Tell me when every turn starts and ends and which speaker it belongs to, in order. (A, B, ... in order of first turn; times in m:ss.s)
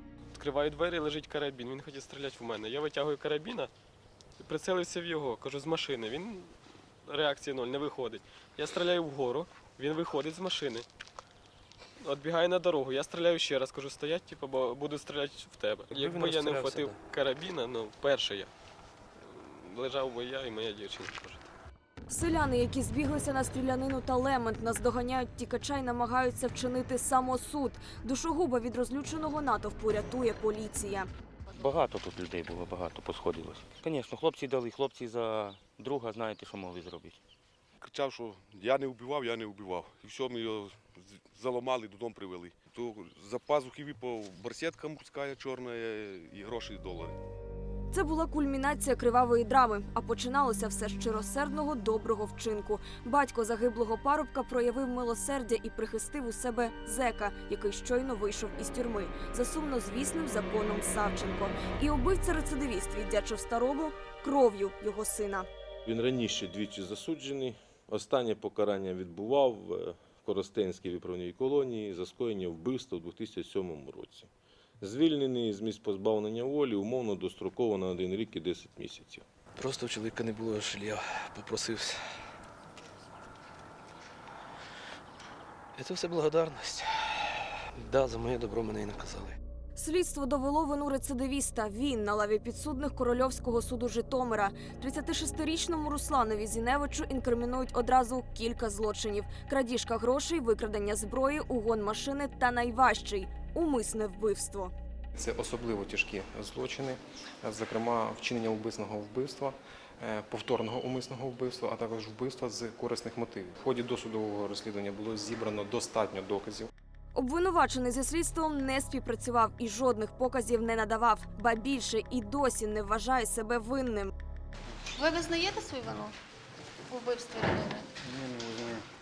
0:00.4-0:03.7 A
0:04.4-0:06.6 A
0:07.1-0:10.9 A
0:12.0-0:18.5 A
0:16.0-0:16.9 B
0:19.2-0:21.4 A
0:22.1-0:31.1 C
0:31.6-0:37.2 D
0:37.8-0:47.2 E
0:47.9-1:05.5 C
1:05.9-1:14.3 F
1:14.8-1:19.2 F
1:19.6-1:22.0 B
1:25.8-1:29.4 B
1:29.8-1:44.7 C
1:45.2-1:56.7 G
1:57.1-2:04.1 C
2:04.9-2:06.2 H
2:06.9-2:07.9 H